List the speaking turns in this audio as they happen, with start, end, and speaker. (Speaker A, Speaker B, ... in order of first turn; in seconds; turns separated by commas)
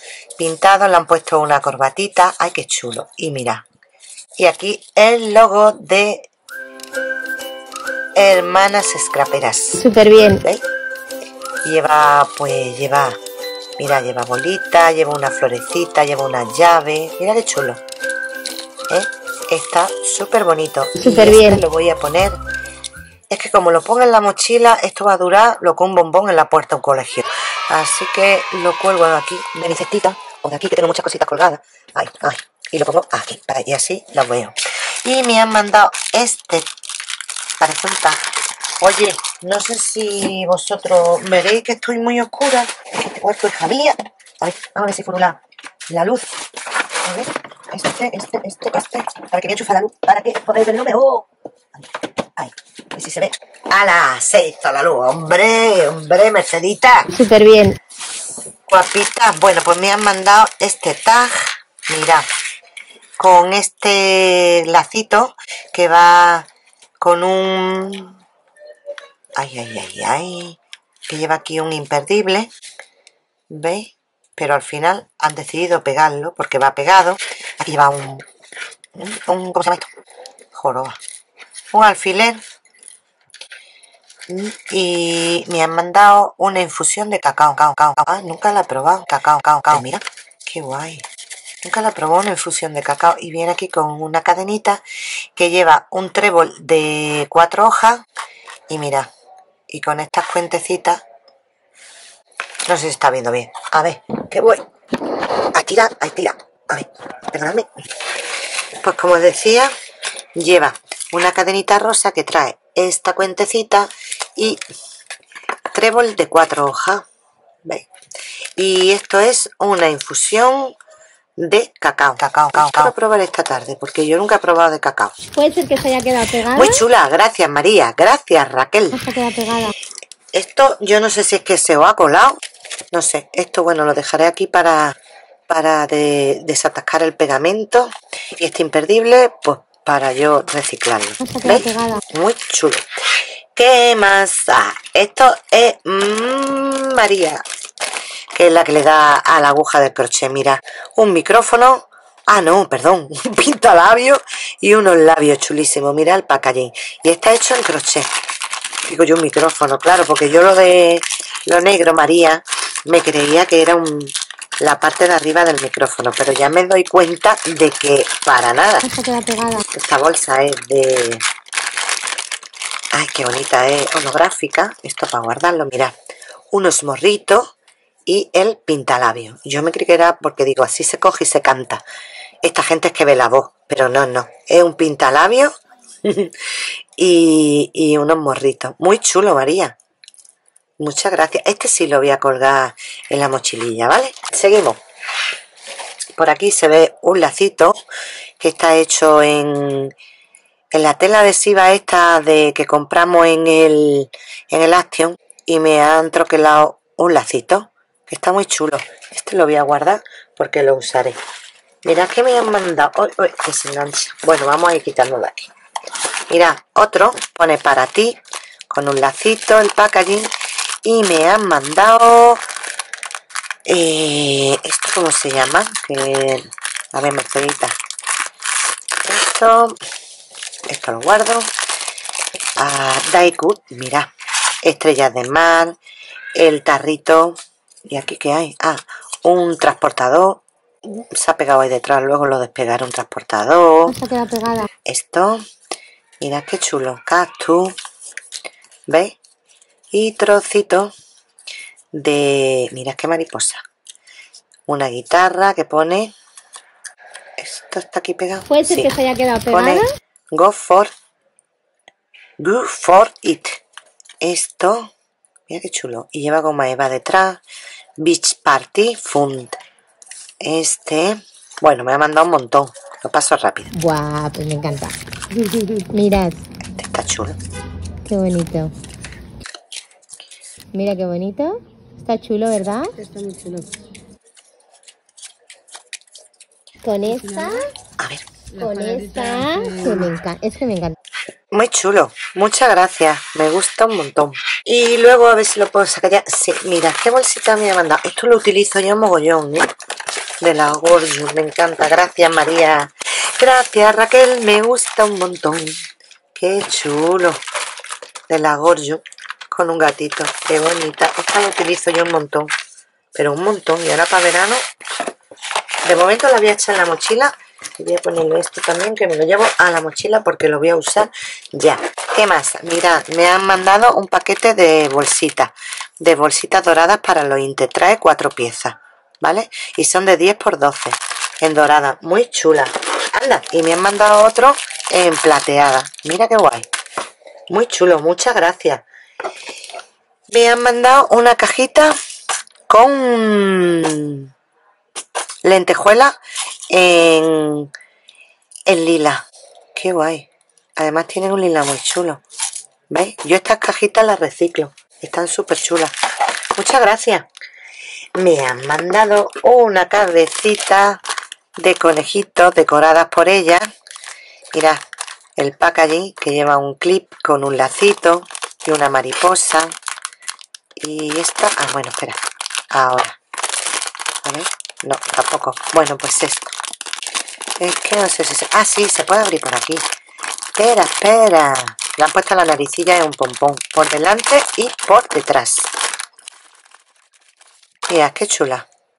Speaker A: 0.4-3.6, Speaker A: 4.4-6.3, Speaker A: 8.2-9.8, Speaker B: 9.8-10.4, Speaker A: 11.6-13.2, Speaker A: 13.8-17.8, Speaker A: 18.9-22.4, Speaker B: 21.0-21.6, Speaker A: 23.3-36.7, Speaker A: 37.6-38.2, Speaker A: 38.8-45.4, Speaker A: 45.9-46.4, Speaker A: 47.0-51.2, Speaker A: 52.4-57.1, Speaker B: 57.1-57.8, Speaker A: 58.7-62.3, Speaker A: 63.2-66.5, Speaker A: 67.0-68.2, Speaker A: 69.4-72.5, Speaker A: 73.5-78.2, Speaker A: 79.0-79.9, Speaker A: 80.5-81.0, Speaker A: 81.7-82.4, Speaker A: 84.3-91.0, Speaker A: 91.6-94.8, Speaker A: 95.3-98.0, Speaker A: 98.7-99.1, Speaker A: 99.7-101.0, Speaker A: 102.7-104.6, Speaker A: 105.5-107.7, Speaker A: 108.8-109.7, Speaker A: 110.4-114.6, Speaker A: 115.7-117.0, Speaker A: 118.6-120.8, Speaker A: 121.4-125.2, Speaker B: 125.3-126.8, Speaker A: 126.5-129.0, Speaker B: 128.9-129.7, Speaker A: 130.3-132.4, Speaker A: 132.9-135.0, Speaker A: 135.5-143.0, Speaker B: 141.2-142.0, Speaker A: 143.6-147.4, Speaker A: 148.3-158.1, Speaker A: 158.9-168.9, Speaker B: 168.8-169.6, Speaker A: 169.7-171.2, Speaker A: 172.9-175.9, Speaker A: 176.5-177.5, Speaker A: 178.1-181.8, Speaker A: 182.4-186.3, Speaker A: 187.0-189.8, Speaker A: 190.8-194.8, Speaker A: 196.2-197.8, Speaker A: 198.4-199.9, Speaker A: 200.7-211.2, Speaker A: 211.8-215.5, Speaker A: 216.3-218.2, Speaker A: 218.7-220.3, Speaker A: 220.8-222.4, Speaker A: 223.7-227.8, Speaker A: 229.1-229.8, Speaker A: 230.7-231.5, Speaker A: 232.6-234.1, Speaker A: 234.6-235.8, Speaker A: 236.4-244.0, Speaker B: 243.9-244.7, Speaker A: 244.9-245.4, Speaker A: 246.2-247.8, Speaker A: 248.9-249.2, Speaker A: 249.9-250.9, Speaker A: 251.9-253.6, Speaker A: 254.7-256.1, Speaker A: 257.4-258.9, Speaker B: 258.5-259.9, Speaker A: 259.5-260.9, Speaker A: 262.4-263.6, Speaker A: 264.2-264.9, Speaker A: 265.5-267.4, Speaker A: 268.0-269.6, Speaker A: 270.4-273.7, Speaker B: 273.7-274.9, Speaker B: 275.8-276.4, Speaker A: 276.8-277.4, Speaker B: 278.1-278.7, Speaker B: 280.7-282.9, Speaker C: 283.0-283.7, Speaker B: 286.8-287.7, Speaker C: 287.1-287.7, Speaker A: 288.0-288.2, Speaker C: 288.5-290.1, Speaker B: 288.6-291.0, Speaker A: 291.5-299.7, Speaker A: 300.4-305.8, Speaker A: 306.4-307.4, Speaker A: 308.3-312.5, Speaker A: 313.1-314.6, Speaker A: 315.8-336.7, Speaker A: 337.5-338.8, Speaker A: 340.3-342.0, Speaker A: 342.7-344.3, Speaker A: 345.4-346.2, Speaker A: 346.7-347.7, Speaker A: 348.7-352.2, Speaker A: 352.9-355.9, Speaker A: 356.6-357.3, Speaker A: 358.1-361.0, Speaker A: 361.6-363.7, Speaker A: 364.5-364.8, Speaker A: 365.4-369.7, Speaker A: 370.8-372.2, Speaker A: 372.7-373.2, Speaker A: 374.2-376.5, Speaker A: 377.6-379.9, Speaker A: 380.6-385.7, Speaker A: 387.9-388.7